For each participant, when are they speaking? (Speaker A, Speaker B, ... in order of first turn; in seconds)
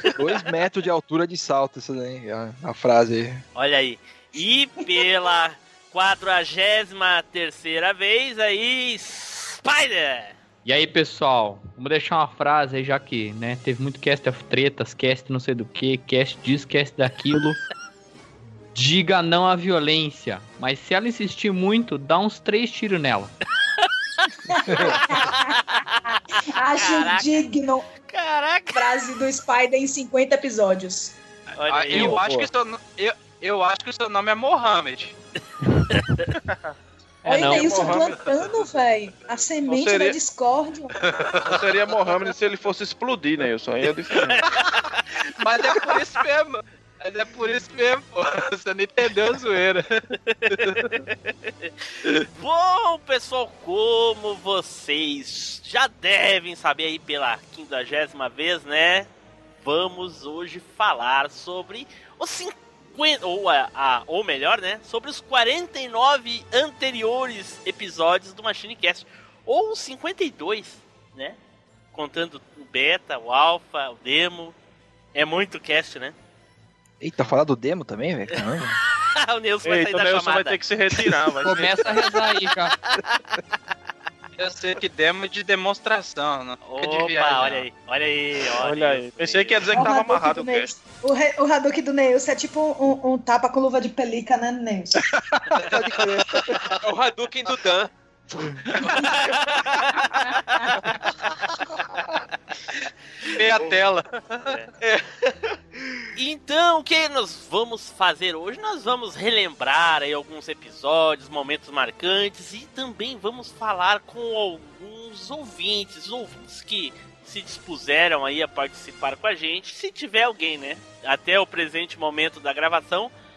Speaker A: 0.1-3.4, 32.0-32.4, 77.0-78.8, 95.7-96.2
Speaker B: 3.5-10.4, 25.2-27.5, 28.0-28.8, 31.6-32.2, 44.2-45.0, 50.3-51.7, 52.3-59.1, 59.6-71.4, 71.9-74.5, 75.1-76.1, 79.2-80.6, 86.6-89.7, 98.9-100.3, 104.4-104.7, 106.1-123.1
Speaker C: 10.6-17.6, 18.7-23.3, 37.2-38.0, 81.4-82.7
Speaker D: 24.5-25.6, 26.4-27.8, 28.7-31.1, 37.2-41.0, 89.7-95.0
Speaker E: 31.7-35.1, 38.0-38.2, 41.0-41.6, 45.3-50.8, 84.4-87.6, 103.3-104.0
Speaker F: 36.5-36.7, 37.4-38.6, 39.6-40.2, 41.4-44.5, 79.6-82.0, 88.6-90.7
Speaker G: 95.7-96.2, 96.7-97.9, 104.8-105.5